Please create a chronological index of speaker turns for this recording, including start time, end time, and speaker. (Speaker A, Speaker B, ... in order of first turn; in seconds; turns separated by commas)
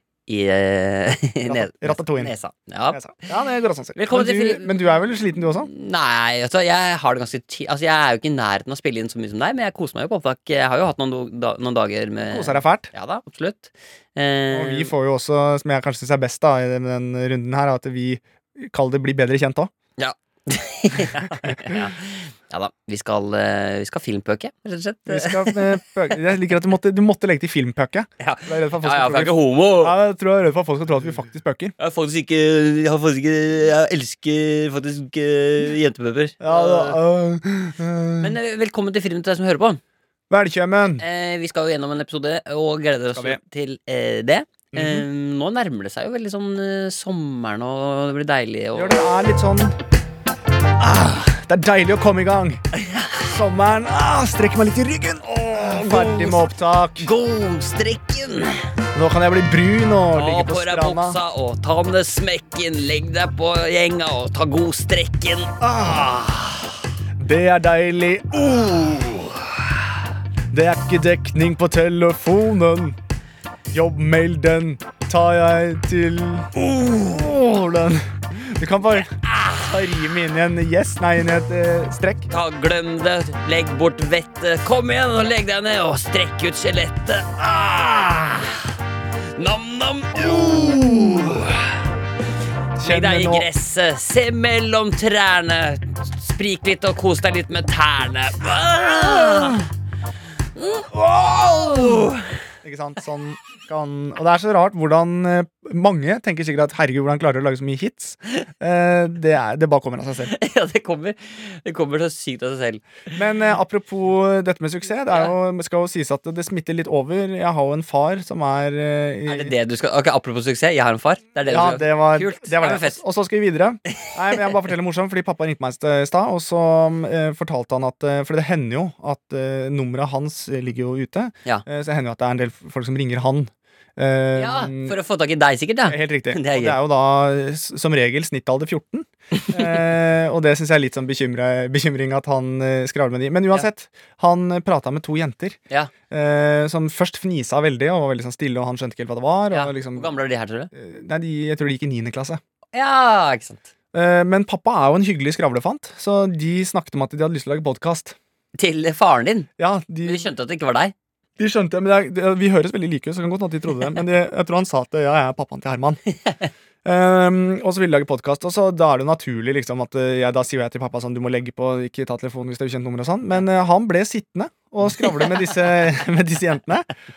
Speaker A: 0.3-3.1, Speaker B: 1.4-2.3, Speaker B: 2.9-5.7, Speaker A: 4.0-4.8, Speaker A: 5.6-14.9, Speaker B: 12.3-12.9, Speaker B: 14.5-19.7, Speaker A: 20.0-25.7, Speaker B: 21.4-21.8, Speaker B: 25.1-31.7, Speaker A: 28.2-29.9, Speaker A: 31.8-37.0, Speaker B: 36.4-38.3, Speaker A: 38.2-39.8, Speaker B: 40.3-41.0, Speaker A: 41.0-49.0, Speaker B: 44.7-45.0, Speaker B: 48.7-49.7, Speaker B: 50.8-52.6, Speaker A: 52.7-53.3, Speaker B: 53.2-57.1, Speaker A: 55.4-58.6, Speaker B: 58.9-61.2, Speaker A: 60.1-65.6, Speaker B: 65.6-66.5, Speaker B: 67.2-69.5, Speaker B: 70.5-73.0, Speaker B: 73.7-82.3, Speaker A: 78.9-79.7, Speaker A: 82.3-88.7, Speaker A: 89.3-91.8, Speaker B: 92.8-93.5, Speaker A: 92.8-99.7, Speaker B: 99.0-99.6, Speaker A: 100.5-102.4, Speaker B: 100.9-102.0, Speaker B: 102.6-110.3, Speaker A: 110.3-113.2, Speaker B: 113.1-119.5, Speaker A: 119.3-123.0, Speaker B: 121.5-134.9, Speaker A: 124.0-124.5, Speaker A: 134.3-136.8, Speaker B: 135.9-145.6, Speaker B: 146.1-150.1, Speaker A: 149.5-150.7, Speaker B: 150.7-152.4, Speaker A: 152.7-153.7, Speaker B: 153.9-158.2, Speaker A: 158.6-159.5, Speaker B: 159.6-160.3, Speaker A: 160.0-160.9, Speaker B: 161.4-166.0, Speaker B: 166.8-176.9